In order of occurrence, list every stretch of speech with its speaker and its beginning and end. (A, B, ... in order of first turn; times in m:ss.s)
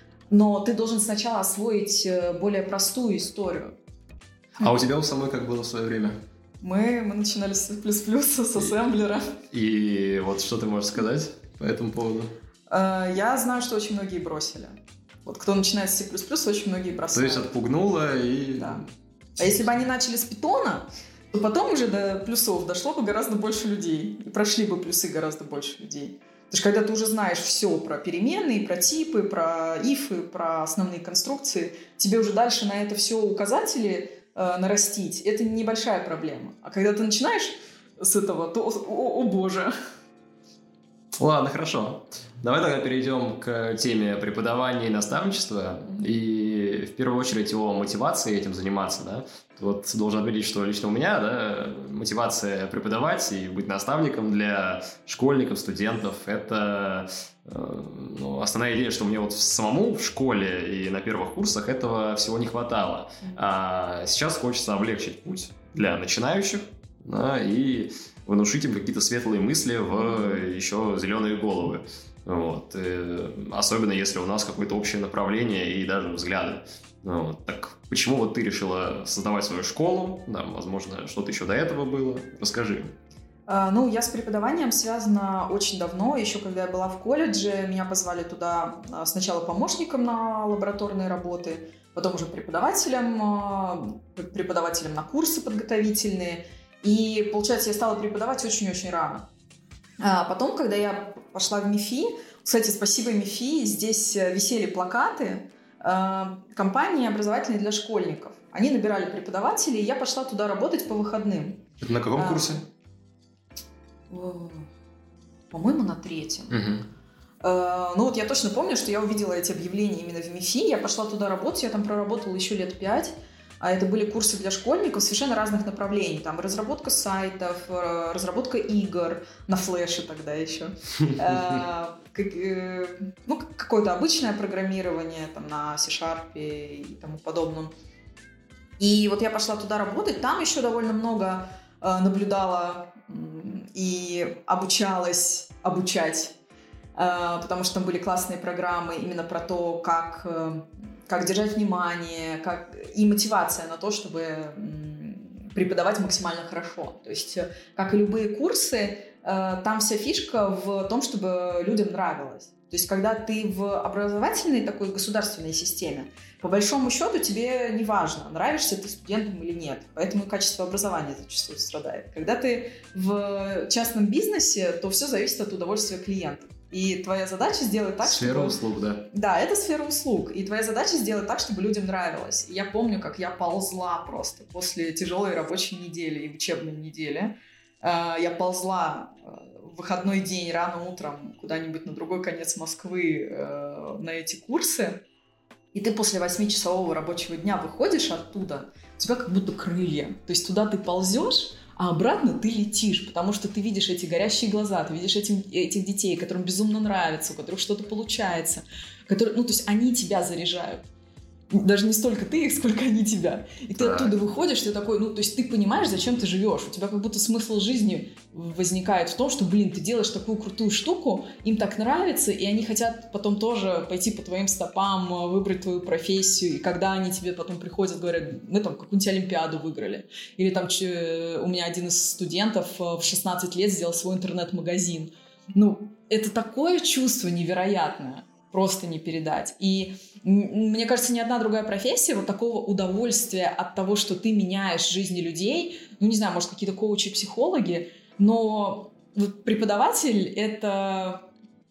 0:00.3-0:03.8 A
0:04.6-0:06.2 B
0:06.6-0:09.4 A
0:09.5-0:12.3 B
0:12.7-0:17.5 A
0:17.1-0:18.8 B
0:18.6-0:18.8 A
0:19.4-0:39.7 A
0:41.2-1:22.9 B
1:23.5-1:39.3 A
1:40.0-1:52.6 A
1:51.8-1:52.6 B
1:54.1-1:54.7 A
1:55.5-1:56.5 A
1:56.5-1:56.8 B
1:57.4-2:17.7 A
2:11.0-2:11.6 B
2:18.8-2:26.3 A
2:27.0-2:58.6 A
2:58.0-2:59.1 B
2:59.1-3:15.0 A
3:15.7-3:30.8 A
3:31.5-4:11.2 A
3:33.7-3:34.1 B